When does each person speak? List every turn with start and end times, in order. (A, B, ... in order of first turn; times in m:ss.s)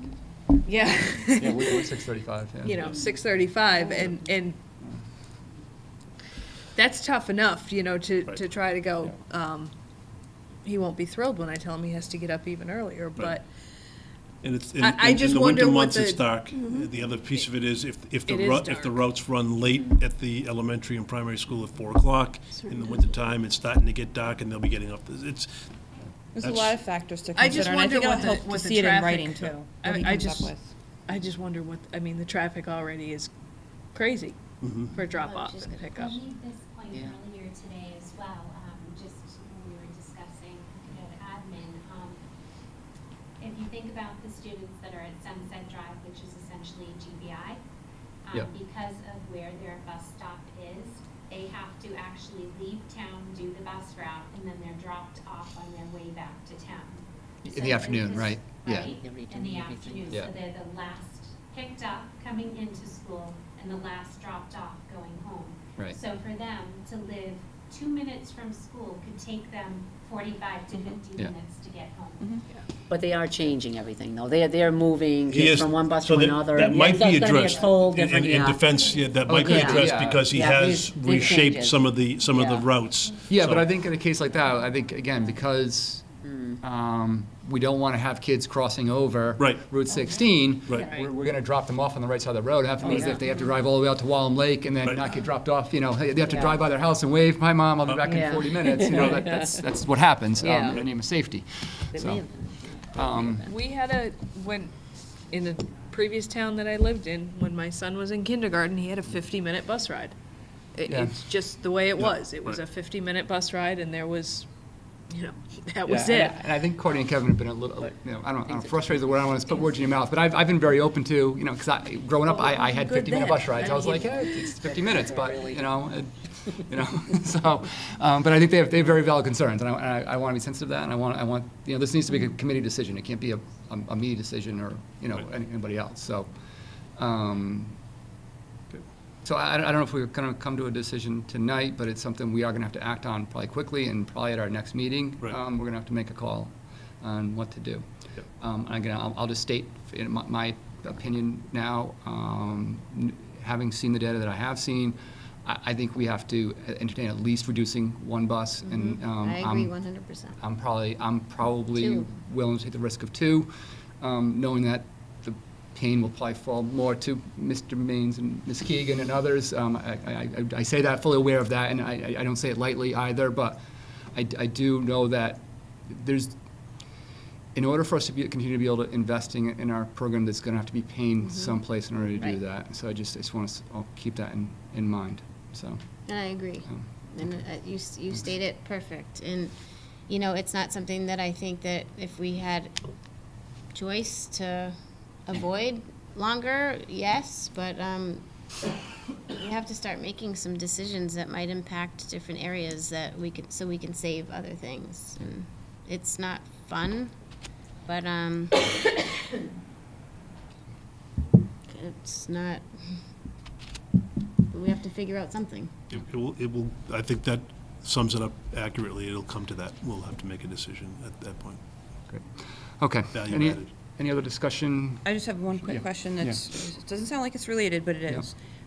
0:00.6-0:02.0 A
0:01.4-0:02.8 B
0:02.6-0:04.6 A
0:06.8-0:09.7 A
0:10.6-0:13.5 A
0:14.4-0:25.7 C
0:14.8-0:16.6 A
0:18.3-0:19.0 A
0:26.3-0:30.7 D
0:26.4-0:26.8 C
0:27.4-0:30.6 A
0:31.1-0:33.3 A
0:33.9-0:34.4 A
0:34.6-0:35.0 C
0:34.9-0:36.2 A
0:35.1-0:35.8 E
0:35.9-0:42.2 F
0:43.4-0:47.6 F
0:48.3-1:12.5 F
0:57.5-0:59.0 B
0:59.1-1:00.0 G
1:12.9-1:18.7 G
1:15.3-1:23.7 C
1:16.6-1:19.8 F
1:19.3-1:20.3 B
1:19.3-1:22.7 G
1:23.0-1:23.3 F
1:23.3-1:26.0 B
1:24.0-1:25.3 F
1:26.2-1:26.6 G
1:26.6-1:42.2 B
1:29.4-1:29.6 C
1:29.9-1:30.2 F
1:30.8-1:31.1 A
1:32.8-1:33.2 G
1:36.2-1:36.6 G
1:38.0-1:39.6 G
1:40.4-1:40.8 G
1:41.9-1:43.5 G
1:42.9-1:43.5 B
1:43.4-1:44.7 A
1:45.3-1:50.2 A
1:50.8-1:54.5 A
1:50.9-1:51.2 B
1:52.0-1:52.6 C
1:55.1-1:56.4 A
1:55.9-2:16.3 B
1:58.4-1:59.3 G
2:02.3-2:05.6 A
2:17.0-2:17.8 B
2:19.2-2:39.7 B
2:38.6-2:40.4 E
2:40.4-2:53.6 B
2:41.8-2:42.1 E
2:54.1-2:56.4 B
2:57.6-3:05.8 B
3:06.1-3:09.5 E
3:10.1-3:12.8 E
3:13.7-3:18.2 E
3:19.3-3:27.2 E
3:27.8-3:29.0 E
3:31.7-3:33.0 E
3:34.5-3:35.8 E
3:35.9-3:41.6 C
3:42.8-3:45.0 B
3:43.1-3:43.7 C
3:45.0-3:48.4 D
3:45.6-3:46.4 B